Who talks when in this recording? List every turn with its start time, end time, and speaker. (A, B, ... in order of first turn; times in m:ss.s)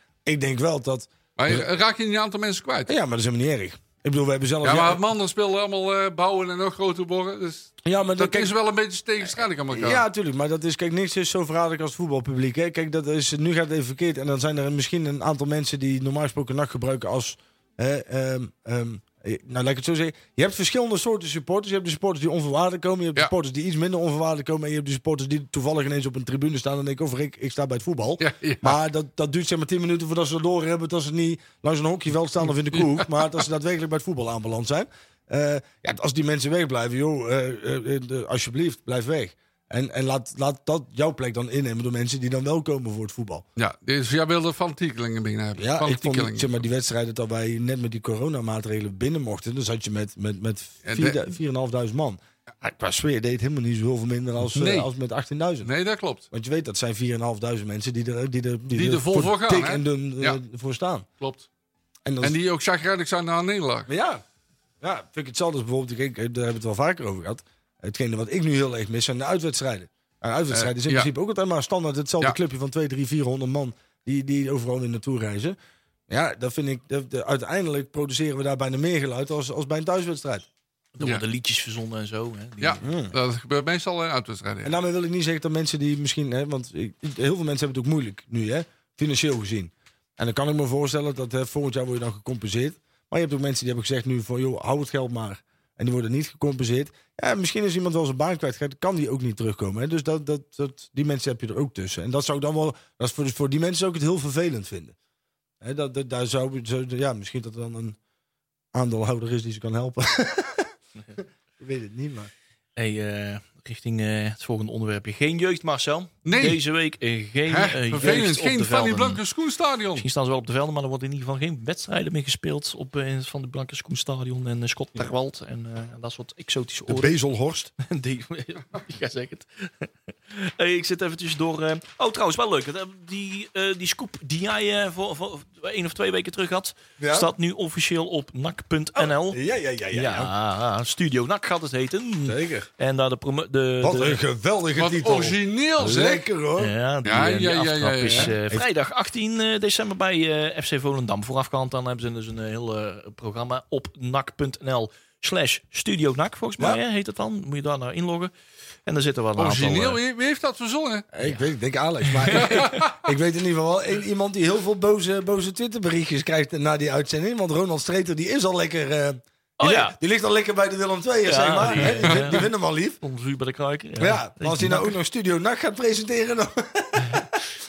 0:00.2-0:01.6 A
0:01.4-0:02.9 B
0:02.9-0:05.0 A
0:04.6-0:10.0 B
0:07.8-0:08.5 A
0:09.7-0:43.4 A
0:28.2-0:28.8 B
0:32.8-0:33.0 B
0:43.6-0:46.5 B
0:45.6-0:55.7 A
0:50.8-0:51.2 B
0:54.5-0:54.9 B
0:55.6-0:56.2 B
0:56.3-1:01.0 A
0:58.7-1:00.4 B
1:01.2-1:01.5 B
1:02.0-1:02.4 A
1:02.2-1:03.9 B
1:03.9-1:04.2 A
1:04.8-1:15.6 A
1:10.5-1:11.1 B
1:16.1-1:20.5 A
1:21.0-1:22.8 C
1:22.6-1:24.8 B
1:22.8-1:23.2 A
1:24.6-1:44.9 A
1:45.6-1:48.0 A
1:48.7-1:52.3 A
1:52.8-1:59.2 C
1:56.2-1:56.6 B
1:57.5-2:00.0 B
2:00.0-2:07.2 C
2:06.9-2:07.7 A
2:07.8-2:19.4 C
2:17.0-2:17.3 A
2:19.0-2:20.3 A
2:19.9-2:24.2 C
2:22.2-2:22.7 A
2:23.8-2:26.7 A
2:24.8-2:26.2 B
2:26.6-2:38.3 C
2:27.0-2:28.3 B
2:28.1-2:28.6 A
2:38.8-2:40.0 C
2:39.4-2:41.1 B
2:41.1-2:53.0 A
2:42.0-2:42.9 C
2:42.3-2:43.0 B
2:49.6-2:50.0 C
2:51.2-2:52.5 C
2:52.0-2:52.4 B
2:53.0-2:54.9 C
2:54.0-2:57.4 A
2:57.0-2:57.3 C